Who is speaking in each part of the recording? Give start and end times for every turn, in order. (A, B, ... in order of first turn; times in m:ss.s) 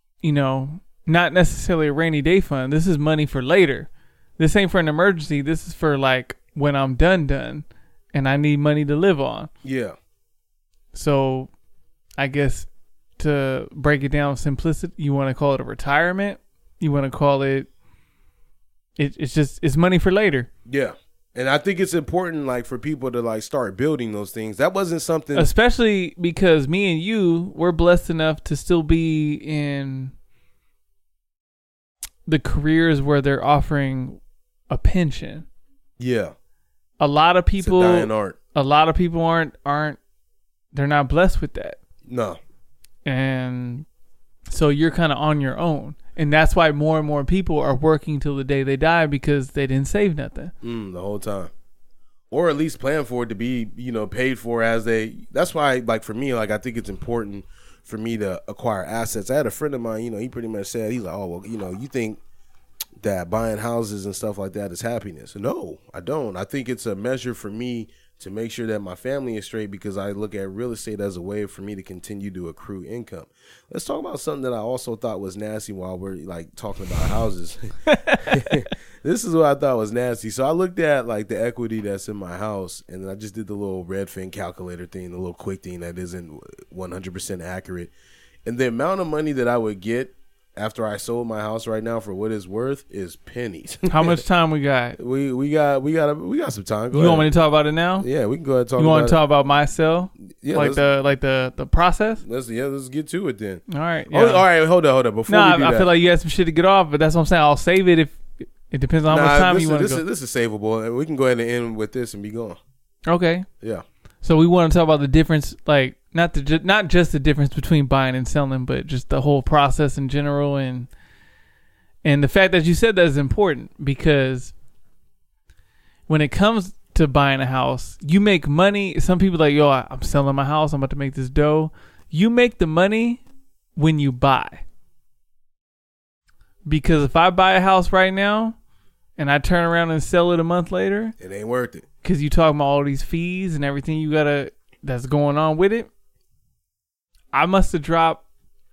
0:00.2-0:09.5 A
0:09.6-0:10.0 B
0:10.9-0:11.5 A
0:12.2-0:17.7 A
0:19.0-0:20.5 A
0:20.7-0:25.5 B
0:25.4-0:30.1 A
0:32.3-0:35.5 A
0:36.0-0:36.3 B
0:37.0-0:40.0 A
0:37.6-0:38.4 B
0:40.7-0:41.8 A
0:42.1-0:42.4 B
0:43.0-0:43.9 A
0:44.5-0:50.5 A
0:50.6-0:51.5 B
0:52.3-1:02.2 B
1:03.0-1:27.9 B
1:17.9-1:18.3 A
1:28.5-1:34.2 B
1:33.9-1:35.0 A
1:35.0-1:37.3 B
1:36.9-1:38.1 A
1:38.0-1:39.2 B
1:38.8-1:42.2 A
1:40.4-1:40.8 B
1:42.2-1:45.9 B
1:43.7-1:44.4 A
1:45.3-1:50.0 A
1:49.1-1:52.6 B
1:53.1-1:53.5 A
1:54.2-2:00.9 A
2:02.0-2:04.5 A
2:06.1-2:13.2 A
2:13.8-2:14.6 A
2:16.7-2:18.6 A
2:19.2-2:21.1 A
2:21.2-2:21.8 B
2:22.0-2:25.9 A
2:27.3-2:28.2 A